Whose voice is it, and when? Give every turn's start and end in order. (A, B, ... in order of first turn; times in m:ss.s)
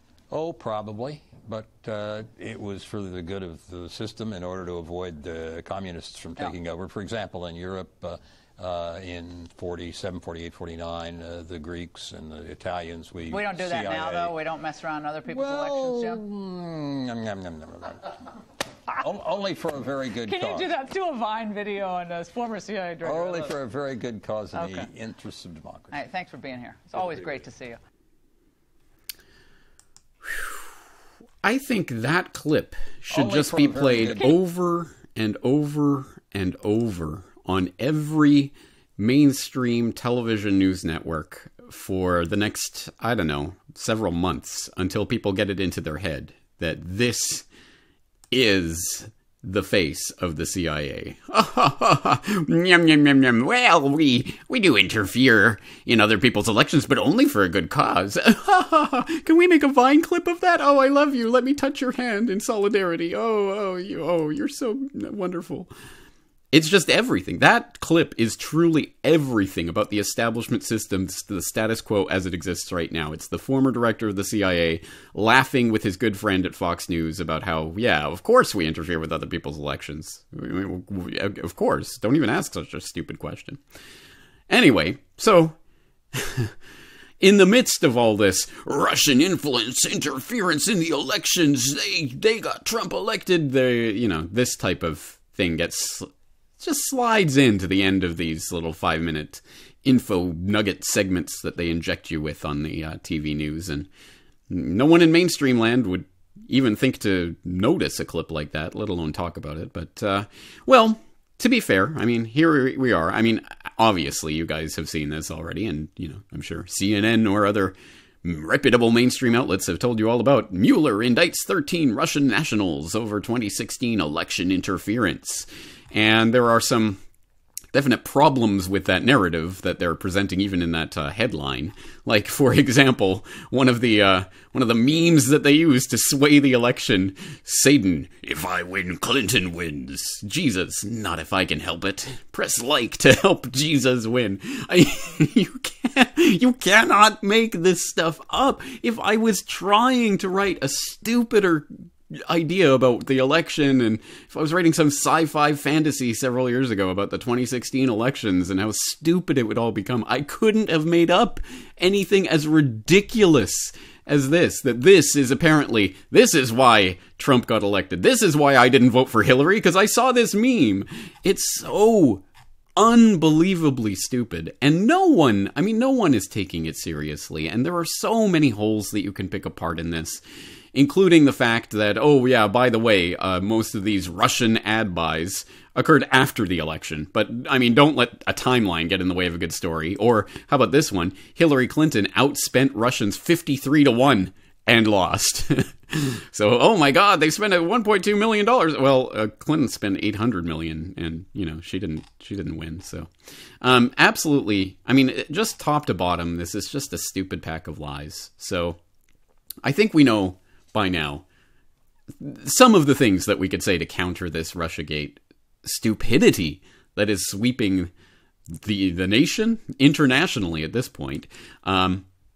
0:00.3-0:14.4 A
0:13.3-0:16.2 B
0:15.3-0:18.1 A
0:18.9-0:20.7 A
0:20.2-0:23.5 B
0:23.0-0:26.0 A
0:24.5-0:24.9 B
0:25.9-0:27.8 B
0:30.3-0:30.5 C
0:31.4-0:47.4 C
0:33.1-0:34.3 A
0:48.3-1:05.7 C
1:06.5-1:23.6 C
1:24.5-1:25.6 C
1:26.1-1:26.5 C
1:27.2-1:36.0 C
1:36.6-1:43.9 C
1:44.5-2:07.0 C
2:07.7-2:52.2 C
2:52.8-3:00.2 C
3:00.7-3:23.1 C
3:23.6-3:28.8 C
3:29.6-3:31.2 C
3:32.2-3:37.9 C
3:38.5-3:42.0 C